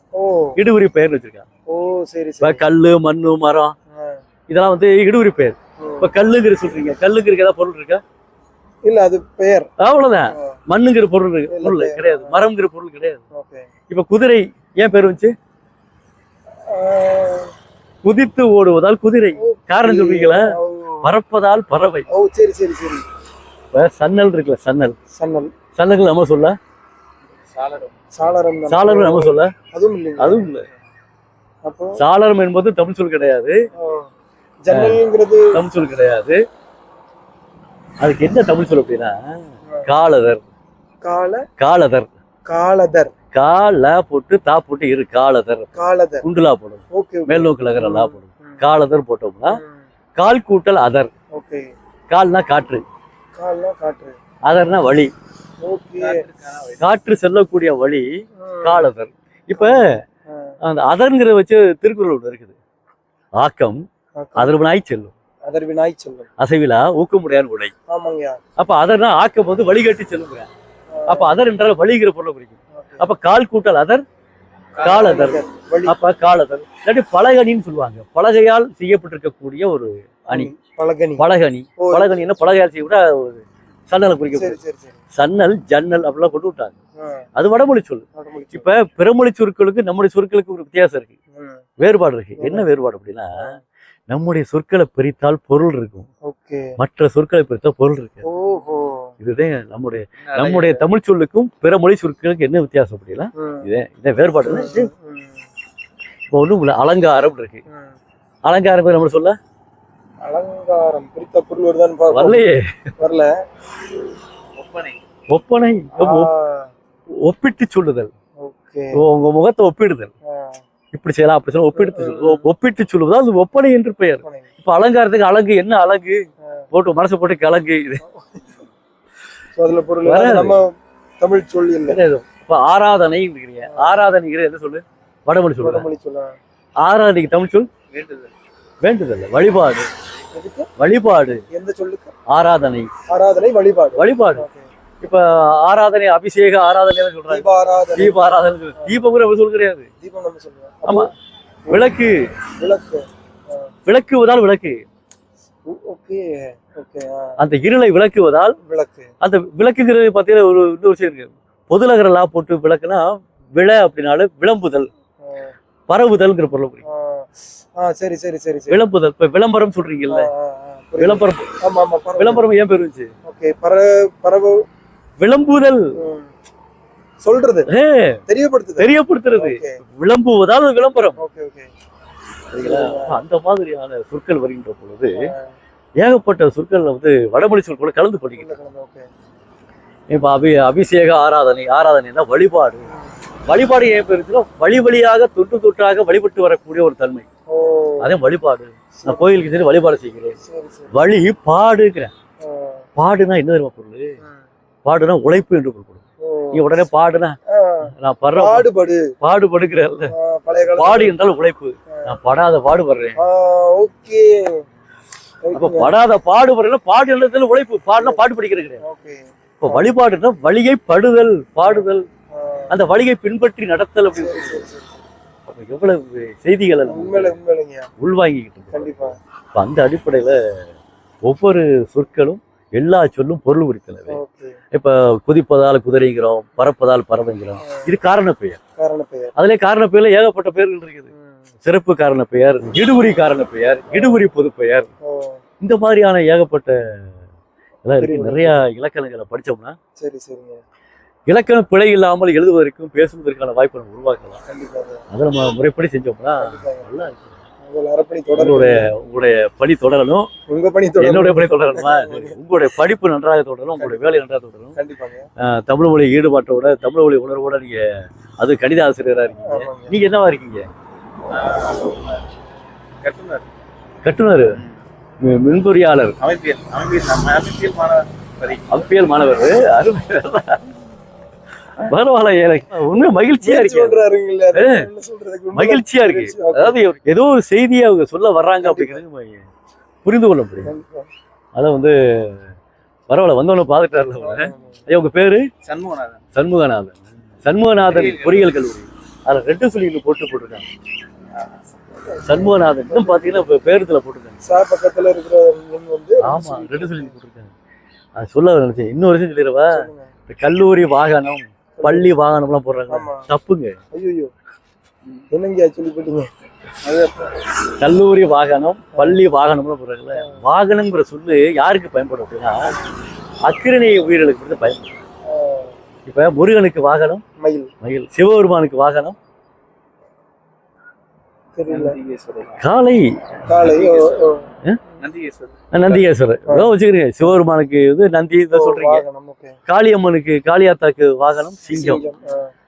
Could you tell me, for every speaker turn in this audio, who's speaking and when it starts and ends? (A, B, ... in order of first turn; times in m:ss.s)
0:00.1-0:00.6 A
0:00.6-0:01.4 B
0:01.7-0:02.6 A
0:02.4-0:03.7 B
0:03.9-0:04.2 A
0:04.5-0:08.0 B
0:05.8-0:06.1 A
0:08.8-0:09.7 A
0:09.8-0:13.2 B
0:10.3-0:10.6 A
0:11.5-0:12.4 A
0:13.3-0:13.7 A
0:13.9-0:15.3 B
0:16.7-0:17.5 A
0:18.0-0:22.1 B
0:19.4-0:21.1 A
0:22.1-0:23.0 A
0:23.7-0:25.0 B
0:25.1-0:25.5 A
0:25.7-0:26.6 B
0:27.4-0:28.0 C
0:28.1-0:30.5 A
0:28.7-0:29.5 B
0:30.2-0:30.7 B
0:31.6-0:32.0 A
0:32.0-0:33.6 B
0:33.7-0:34.1 A
0:34.6-0:35.5 A
0:34.7-0:35.0 B
0:35.5-0:36.4 B
0:38.0-0:40.4 B
0:41.0-0:41.4 A
0:41.6-0:42.1 B
0:42.4-0:43.1 A
0:43.3-0:49.6 B
0:45.7-0:46.2 A
0:46.9-0:48.6 A
0:49.5-0:49.8 A
0:50.2-0:51.1 B
0:51.3-0:51.7 A
0:52.1-0:52.8 B
0:53.4-0:54.2 A
0:54.4-0:55.1 B
0:55.6-0:56.2 A
0:56.0-0:56.9 C
0:56.8-0:58.0 B
0:58.4-0:58.9 A
0:58.6-1:00.0 B
0:59.6-1:00.6 A
1:00.6-1:02.5 B
1:03.4-1:03.8 B
1:04.2-1:04.5 A
1:04.4-1:05.1 B
1:05.4-1:06.3 A
1:06.4-1:07.7 B
1:07.9-1:08.4 A
1:08.6-1:10.5 B
1:10.9-1:11.4 A
1:11.1-1:14.0 B
1:12.7-1:13.1 A
1:14.8-1:15.1 C
1:14.8-1:16.0 A
1:14.8-1:20.5 B
1:20.3-1:21.2 A
1:21.2-1:24.6 B
1:21.8-1:22.4 A
1:24.3-1:25.0 A
1:25.1-1:26.8 B
1:27.0-1:27.2 A
1:27.4-1:31.1 B
1:28.1-1:28.7 A
1:31.3-1:31.6 A
1:31.8-1:33.5 B
1:32.4-1:32.7 A
1:34.1-1:36.1 B
1:36.2-1:36.7 A
1:36.8-1:38.2 B
1:38.2-1:39.1 A
1:39.2-1:44.9 B
1:40.2-1:40.8 C
1:43.4-1:43.6 A
1:44.4-1:45.4 A
1:46.3-1:47.6 B
1:47.7-1:48.0 A
1:48.4-1:49.4 B
1:50.2-1:52.4 A
1:52.1-1:52.8 B
1:53.0-1:53.3 A
1:54.5-1:55.0 C
1:55.3-1:56.3 B
1:56.0-1:56.7 A
1:57.2-1:58.1 B
1:58.4-1:59.0 A
1:58.9-2:00.1 B
2:00.2-2:00.6 A
2:00.9-2:08.0 B
2:01.7-2:02.5 A
2:04.2-2:04.5 A
2:08.0-2:08.4 A
2:09.6-2:10.7 A
2:10.0-2:10.6 B
2:11.2-2:12.0 A
2:11.9-2:15.9 B
2:13.6-2:13.9 A
2:15.6-2:16.4 A
2:16.8-2:17.7 B
2:17.9-2:18.3 C
2:18.8-2:19.9 B
2:20.3-2:20.7 A
2:20.8-2:21.4 B
2:21.5-2:22.1 A
2:22.3-2:22.9 B
2:23.1-2:24.6 A
2:24.0-2:24.4 B
2:25.0-2:29.9 B
2:27.3-2:28.2 A
2:28.8-2:29.0 A
2:30.0-2:31.1 A
2:30.8-2:31.1 B
2:31.6-2:32.0 A
2:31.7-2:32.3 B
2:32.6-2:33.7 A
2:33.8-2:34.8 B
2:35.6-2:37.4 A
2:37.4-2:38.6 B
2:38.6-2:39.1 A
2:39.2-2:44.9 B
2:45.2-2:45.5 A
2:45.9-2:46.8 B
2:46.8-2:48.8 A
2:48.7-2:50.3 B
2:50.1-2:52.4 A
2:51.0-2:51.5 B
2:52.2-2:53.1 B
2:53.2-2:54.6 A
2:55.2-2:55.9 B
2:56.0-2:56.3 A
2:57.2-2:57.7 A
2:57.7-2:58.2 B
2:58.3-2:59.8 A
2:58.8-3:01.2 B
3:01.2-3:01.7 A
3:02.5-3:05.2 B
3:02.6-3:03.2 A
3:05.2-3:05.5 A
3:06.0-3:08.6 B
3:08.4-3:09.1 A
3:10.1-3:12.9 B
3:12.9-3:13.1 A
3:13.5-3:17.2 B
3:17.5-3:18.1 A
3:18.0-3:20.4 B
3:18.9-3:19.3 A
3:20.4-3:21.0 A
3:20.9-3:22.1 B
3:22.4-3:22.8 A
3:23.0-3:24.2 B
3:24.8-3:28.7 B
3:26.2-3:26.9 A
3:27.5-3:29.1 A
3:29.2-3:30.1 B
3:30.1-3:31.1 A
3:30.7-3:33.2 B
3:31.9-3:32.2 A
3:33.2-3:34.6 A
3:35.4-3:35.9 A
3:35.5-3:38.8 B
3:38.0-3:38.2 A
3:38.8-3:39.9 A
3:39.6-3:42.1 B
3:41.6-3:42.8 A
3:42.7-3:44.6 B
3:44.1-3:45.0 A
3:45.4-3:47.4 B
3:46.8-3:47.9 A
3:48.0-3:50.4 B
3:48.7-3:49.2 A
3:51.2-3:54.2 B
3:54.1-3:54.6 A
3:54.7-3:58.6 B
3:58.8-3:59.3 A
3:59.4-4:01.1 B
4:01.1-4:01.4 A
4:01.6-4:04.9 B
4:03.9-4:04.2 A
4:05.0-4:05.4 A
4:05.6-4:06.8 B
4:07.8-4:09.8 B
4:08.0-4:08.6 A
4:10.0-4:10.6 A
4:11.3-4:14.4 B
4:14.5-4:15.0 A
4:15.1-4:17.4 B
4:16.4-4:16.9 A
4:17.6-4:18.8 A
4:18.3-4:20.3 B
4:20.5-4:22.4 A
4:21.0-4:24.8 B
4:23.8-4:24.2 A
4:24.8-4:25.2 A
4:25.4-4:27.8 B
4:28.4-4:30.7 B
4:29.4-4:30.0 A
4:31.3-4:32.2 C
4:33.0-4:33.4 C
4:34.0-4:34.6 B
4:35.2-4:36.1 B
4:36.2-4:39.0 C
4:38.7-4:40.6 B
4:41.8-4:44.0 B
4:43.2-4:46.8 A
4:44.5-4:44.9 B
4:45.5-4:49.4 B
4:48.6-4:49.0 A
4:50.0-4:50.7 B
4:50.6-4:51.1 A
4:51.5-4:52.4 B
4:53.1-4:55.5 B
4:54.2-4:54.8 A
4:55.6-4:56.2 C
4:56.3-5:00.7 B
4:57.9-4:58.5 C
5:02.1-5:03.4 A
5:02.2-5:04.4 B
5:04.4-5:07.1 A
5:06.2-5:07.5 B
5:08.2-5:13.8 B
5:09.7-5:10.1 A
5:11.8-5:12.1 A
5:12.9-5:13.3 A
5:13.9-5:14.3 A
5:15.3-5:16.3 A
5:16.8-5:17.3 C
5:17.8-5:22.7 B
5:23.4-5:24.9 B
5:25.2-5:25.7 A
5:26.0-5:27.2 B
5:27.4-5:27.7 A
5:27.8-5:29.2 B
5:31.6-5:32.0 A
5:31.7-5:32.6 C
5:32.6-5:33.2 B
5:33.5-5:34.4 A
5:33.5-5:34.2 C
5:35.0-5:36.1 C
5:35.7-5:39.0 B
5:38.5-5:39.6 A
5:39.7-5:42.0 B
5:41.7-5:42.5 A